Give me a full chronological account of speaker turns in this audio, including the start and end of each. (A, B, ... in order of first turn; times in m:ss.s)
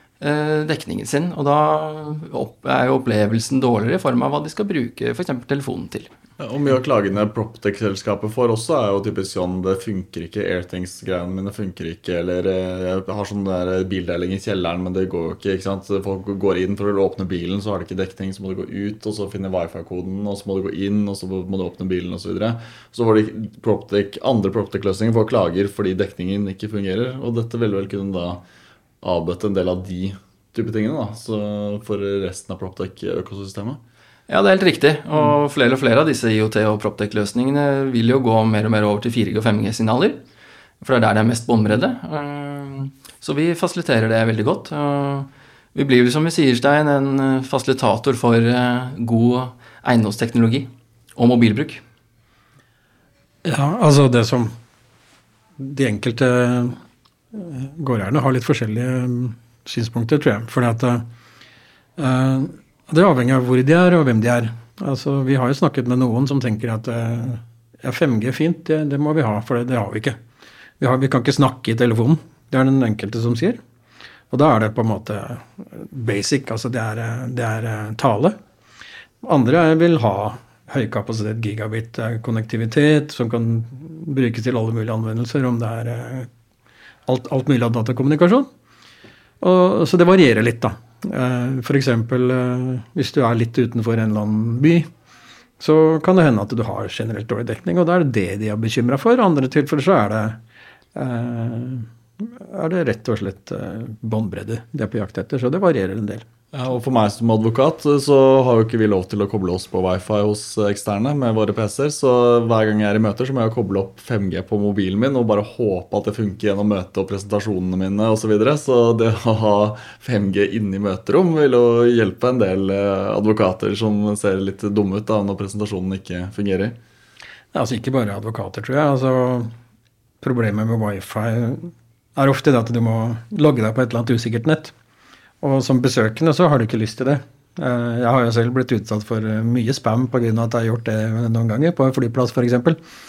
0:00.2-0:06.1 A
0:06.4-0:28.4 B
0:29.0-0:33.8 B
0:34.3-0:40.2 A
0:40.8-0:51.8 A
0:53.4-0:54.5 C
0:55.6-0:56.8 C
0:57.3-1:01.0 C
1:02.0-1:10.2 C
1:10.8-1:13.6 C
1:14.3-1:18.4 C
1:19.2-1:26.3 C
1:27.1-1:28.5 C
1:29.4-1:34.9 C
1:35.6-1:40.4 C
1:40.9-1:46.3 C
1:46.5-2:06.8 B
2:07.5-2:09.5 C
2:10.2-2:14.7 C
2:15.4-2:22.8 C